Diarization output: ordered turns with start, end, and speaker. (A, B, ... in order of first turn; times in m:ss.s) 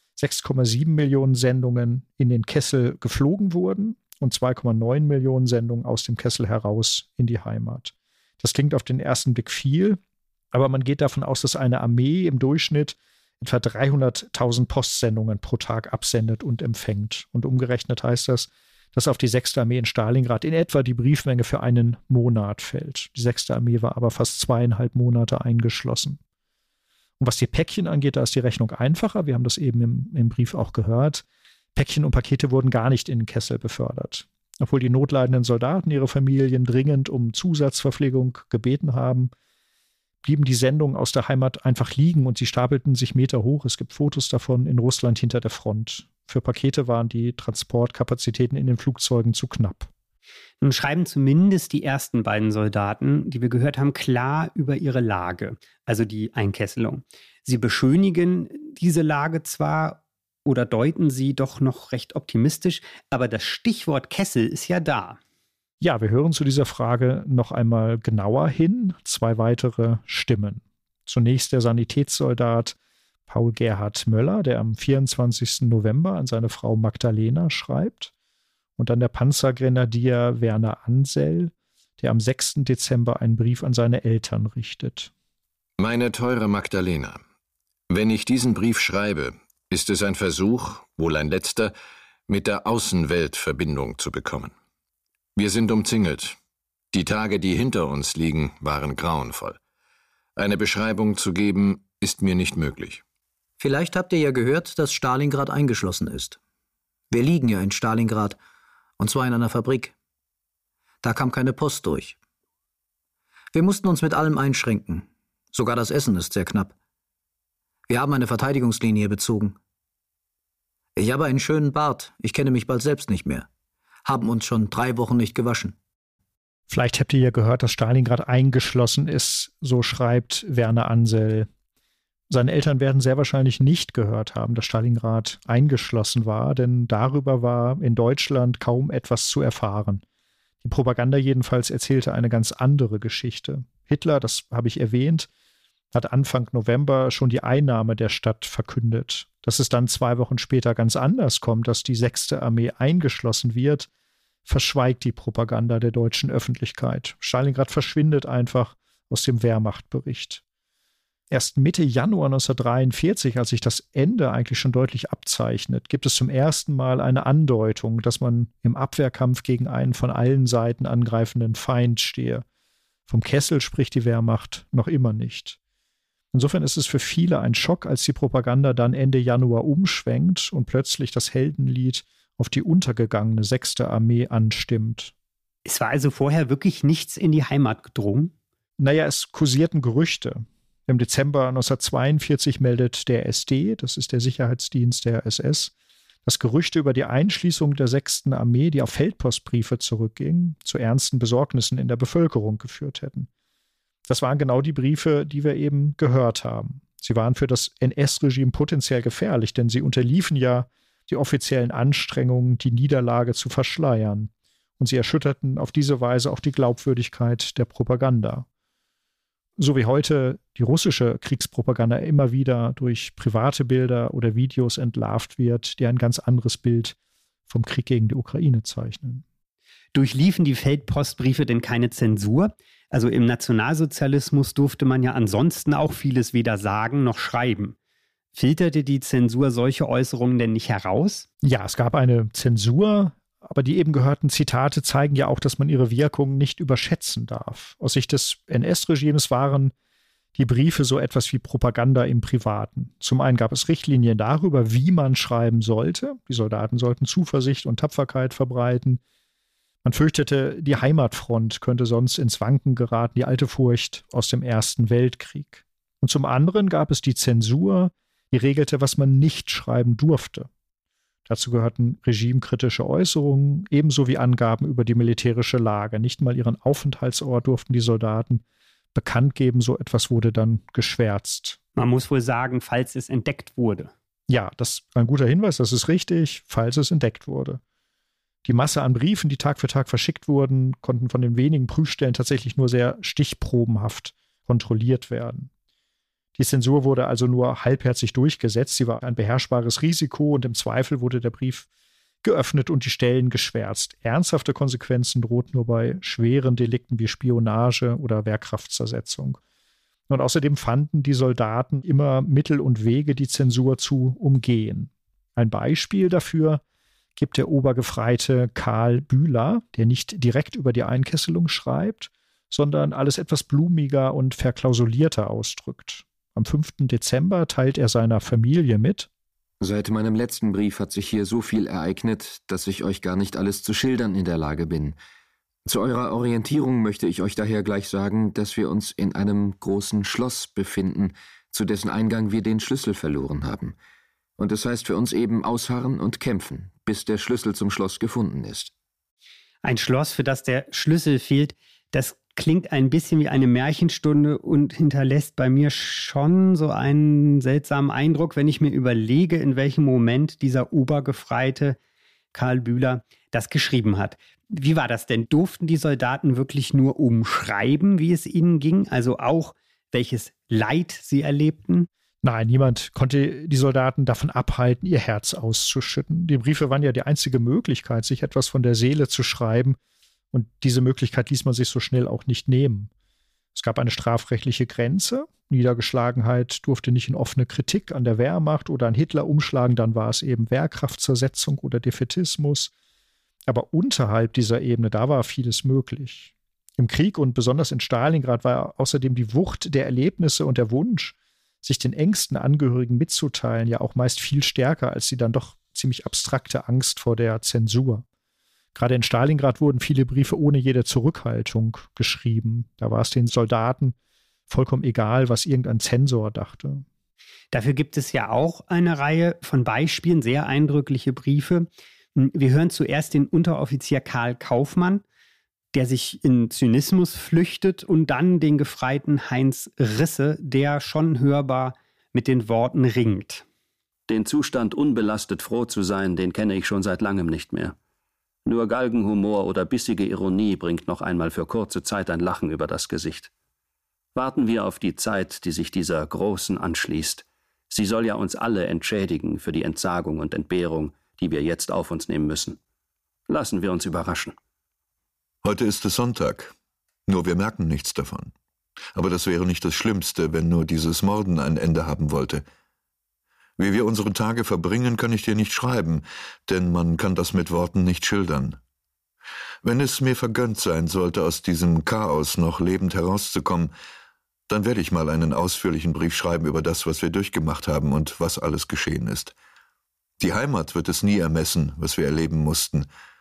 0:00.2-0:10.0 A
0:10.5-0:26.2 A
0:27.2-0:31.2 A
0:31.8-0:39.3 A
0:40.2-0:49.9 A
0:50.6-1:05.2 B
1:05.8-1:12.8 A
1:13.3-1:18.1 A
1:18.8-1:25.1 A
1:25.8-1:27.2 C
1:27.9-1:31.7 C
1:32.3-1:34.5 C
1:35.4-1:36.4 C
1:36.9-1:39.6 C
1:40.4-1:43.0 C
1:43.6-1:46.4 D
1:47.1-1:48.4 D
1:49.0-1:49.9 D
1:51.0-1:52.2 D
1:53.5-1:56.7 D
1:57.9-1:59.6 D
2:01.0-2:03.5 D
2:04.0-2:05.8 D
2:06.7-2:11.5 A
2:12.3-2:20.0 A
2:20.6-2:25.3 A
2:25.9-2:33.9 A
2:34.5-2:40.4 A
2:41.3-2:52.4 A
2:53.1-2:55.6 A
2:56.3-3:05.1 A
3:05.7-3:08.3 B
3:08.8-3:15.7 A
3:16.2-3:23.3 A
3:24.1-3:38.5 A
3:39.6-3:47.0 A
3:47.5-3:49.2 A
3:49.9-3:57.8 B
3:58.3-4:01.3 B
4:01.4-4:09.7 A
4:10.4-4:19.0 A
4:19.8-4:30.5 A
4:31.3-4:41.6 A
4:41.8-4:43.9 B
4:44.3-4:47.6 A
4:48.4-4:55.5 A
4:56.4-5:01.7 A
5:02.2-5:09.4 A
5:10.1-5:16.6 A
5:17.2-5:29.1 A
5:29.6-5:35.0 E
5:35.6-5:43.8 E
5:44.4-5:48.7 E
5:49.6-6:01.8 B
6:02.3-6:11.9 B
6:12.2-6:19.8 A
6:20.3-6:22.9 A
6:23.6-6:32.7 A
6:33.5-6:48.0 A
6:48.8-6:54.0 A
6:54.5-6:56.8 A
6:57.5-7:05.0 B
7:05.7-7:13.4 B
7:14.1-7:17.8 F
7:18.5-7:23.3 F
7:24.2-7:32.6 F
7:33.3-7:34.4 F
7:35.4-7:36.5 G
7:37.1-7:38.3 G
7:39.0-7:42.4 G
7:43.6-7:48.6 G
7:49.6-7:53.7 G
7:54.5-7:59.4 G
8:00.2-8:02.9 G